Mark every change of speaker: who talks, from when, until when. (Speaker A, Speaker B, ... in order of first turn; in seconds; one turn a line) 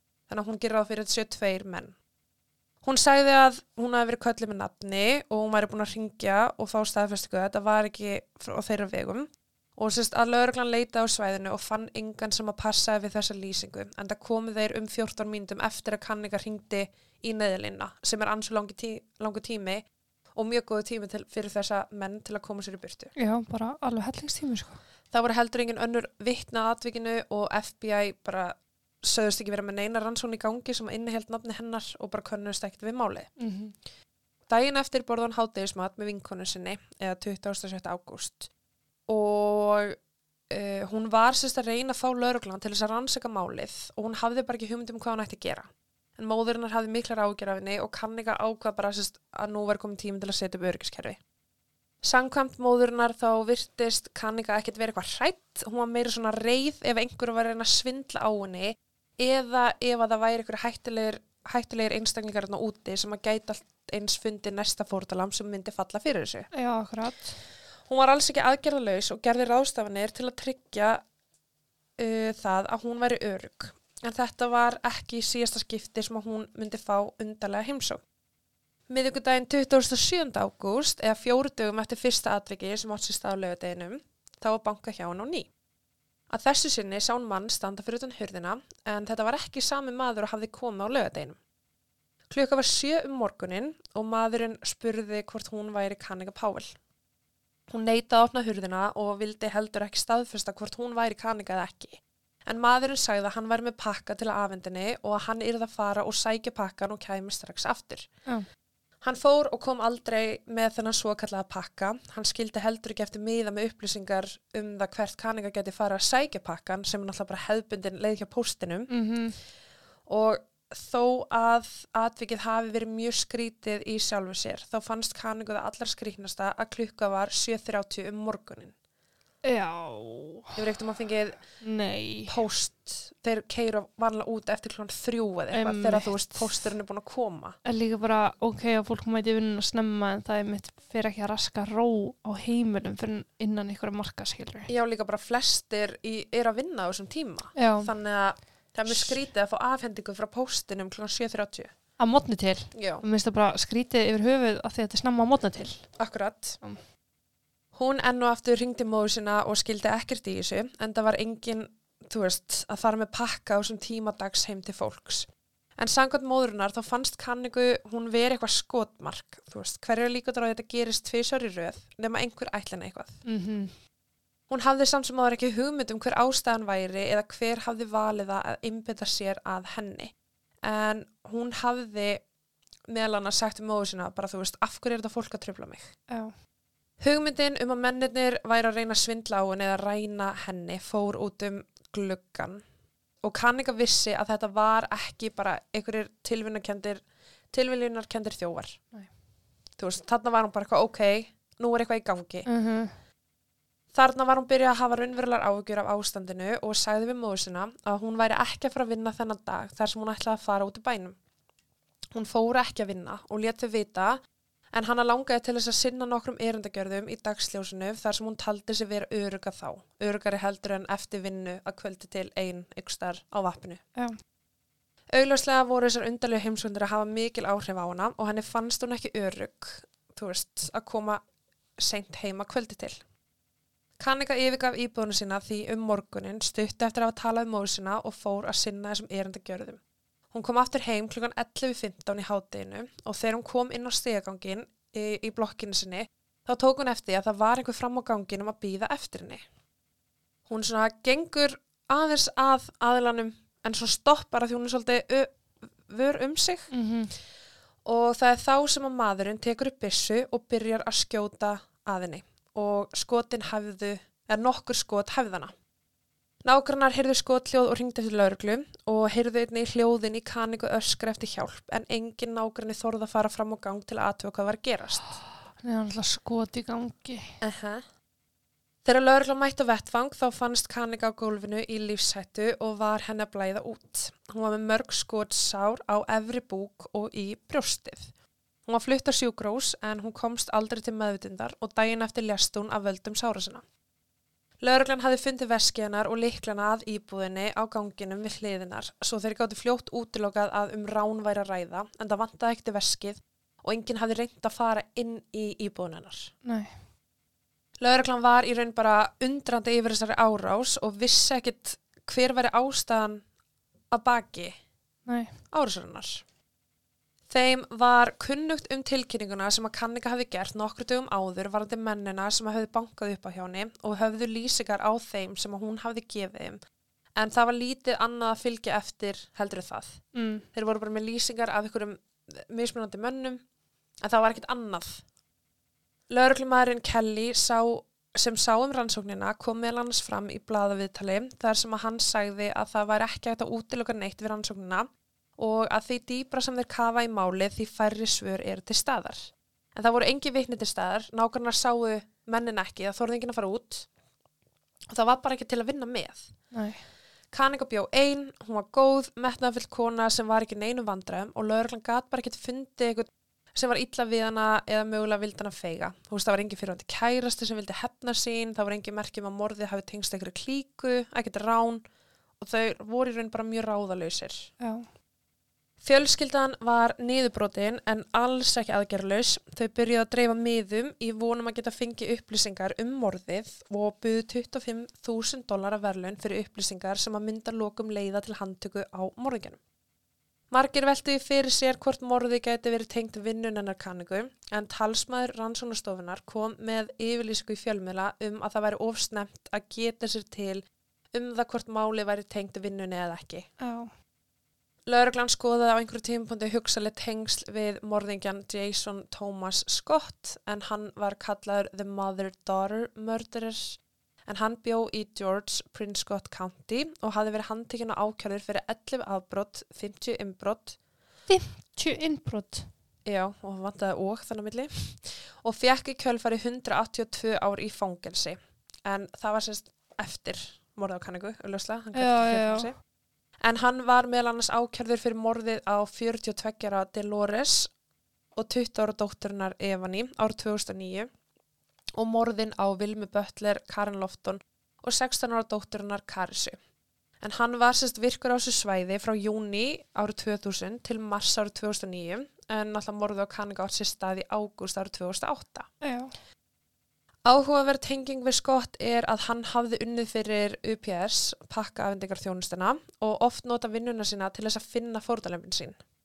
Speaker A: 0.3-1.9
Speaker A: 2.8-23.1
Speaker B: 23.1-24.8
Speaker A: 25.1-33.3
Speaker B: 33.4-33.8
Speaker A: 34.5-38.5
Speaker A: 39.1-40.0
Speaker A: 40.5-51.2
Speaker A: 52.0-66.5
Speaker B: 66.5-67.4
Speaker A: 67.8-71.0
Speaker A: 72.0-78.0
Speaker A: 78.9-85.5
Speaker A: 86.3-91.4
Speaker A: 92.3-96.8
Speaker A: 97.7-108.1
Speaker A: 109.0-118.9
Speaker B: 118.9-119.4
Speaker A: 120.0-128.7
Speaker B: 129.4-130.6
Speaker A: 130.5-131.6
Speaker B: 131.6-132.4
Speaker A: 132.2-137.6
Speaker B: 135.5-136.7
Speaker B: 137.6-144.7
Speaker A: 144.7-151.7
Speaker B: 147.5-149.2
Speaker B: 152.0-156.0
Speaker A: 152.7-153.0
Speaker A: 156.0-156.6
Speaker A: 157.7-173.2
Speaker B: 173.2-173.8
Speaker A: 174.5-182.3
Speaker A: 182.9-185.9
Speaker B: 186.1-186.4
Speaker A: 187.0-192.6
Speaker A: 193.2-198.8
Speaker A: 199.8-202.5
Speaker B: 202.4-202.9
Speaker A: 203.9-211.2
Speaker A: 212.1-214.2
Speaker A: 214.7-223.8
Speaker A: 225.1-231.2
Speaker A: 231.8-233.0
Speaker A: 234.0-239.8
Speaker A: 240.3-249.4
Speaker A: 250.5-256.7
Speaker B: 256.7-257.1
Speaker A: 257.8-265.5
Speaker A: 266.4-275.2
Speaker B: 275.5-277.4
Speaker A: 277.4-277.8
Speaker A: 278.8-288.1
Speaker A: 288.6-293.6
Speaker A: 294.6-306.3
Speaker B: 306.4-306.8
Speaker A: 307.8-313.2
Speaker A: 313.9-314.6
Speaker B: 315.0-315.4
Speaker A: 315.5-316.2
Speaker A: 317.3-326.6
Speaker A: 327.1-333.4
Speaker B: 330.1-330.4
Speaker A: 334.0-335.0
Speaker A: 336.1-353.9
Speaker A: 354.9-356.4
Speaker B: 356.5-356.9
Speaker A: 357.3-371.8
Speaker A: 372.4-374.5
Speaker B: 374.6-374.9
Speaker A: 375.8-389.6
Speaker A: 390.5-403.5
Speaker B: 403.6-403.9
Speaker A: 404.9-420.8
Speaker B: 421.3-422.7
Speaker A: 423.0-432.9
Speaker B: 431.9-432.7
Speaker A: 433.4-437.7
Speaker A: 438.3-441.1
Speaker A: 442.0-446.6
Speaker A: 447.2-455.7
Speaker B: 455.8-456.1
Speaker A: 457.2-465.8